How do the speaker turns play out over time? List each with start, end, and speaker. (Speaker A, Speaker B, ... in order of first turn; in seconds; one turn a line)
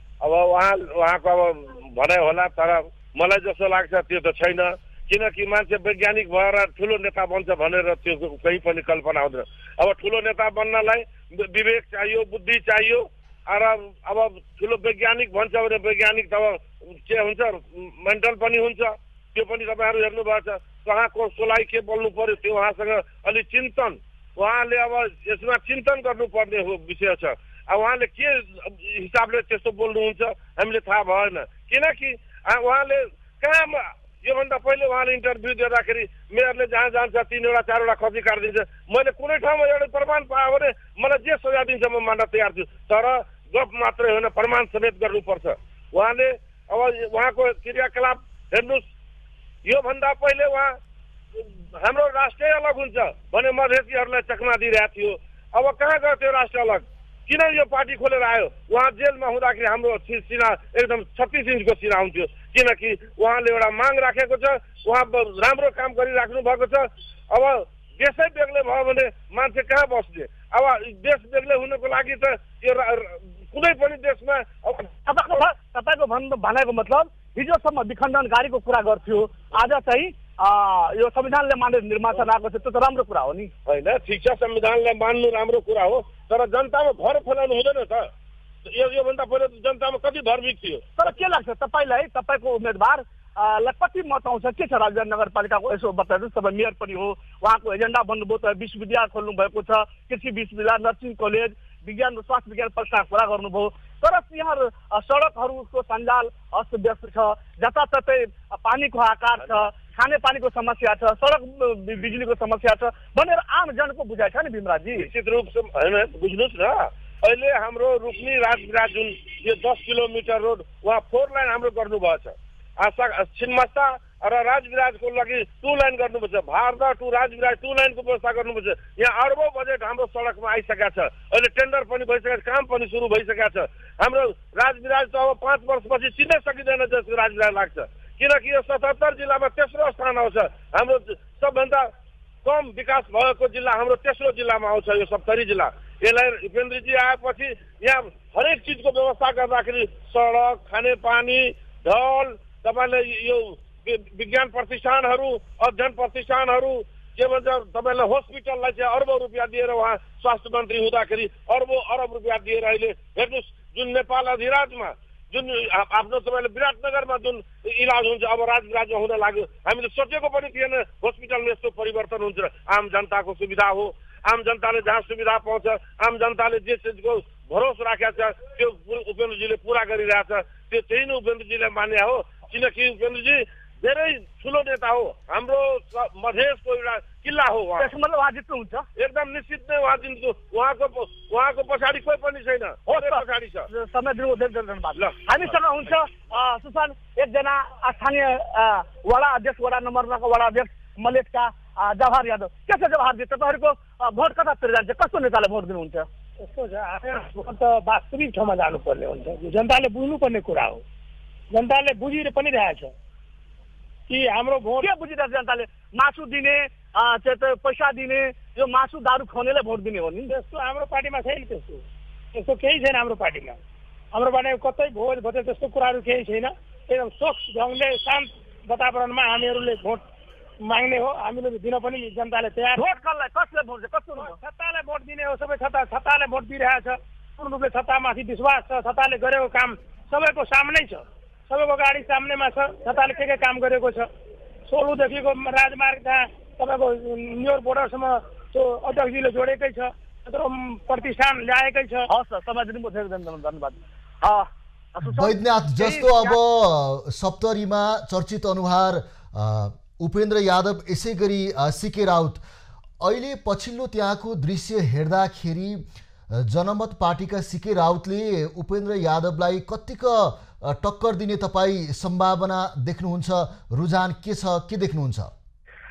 Speaker A: 0.2-48.8
Speaker A: 49.6-50.8
Speaker A: 51.4-74.9
Speaker B: 75.0-83.5
Speaker A: 83.7-88.1
Speaker A: 88.6-90.8
Speaker B: 91.0-115.1
Speaker A: 115.0-141.9
Speaker A: 142.4-187.9
Speaker B: 187.8-188.8
Speaker A: 188.9-193.7
Speaker B: 192.9-206.1
Speaker C: 206.4-210.8
Speaker C: 211.5-212.9
Speaker C: 214.1-214.9
Speaker B: 214.8-220.3
Speaker C: 220.3-223.6
Speaker C: 224.1-230.0
Speaker C: 230.6-232.8
Speaker B: 232.7-234.3
Speaker C: 234.2-244.1
Speaker C: 244.7-252.1
Speaker B: 252.1-256.4
Speaker D: 255.1-262.4
Speaker D: 263.0-275.3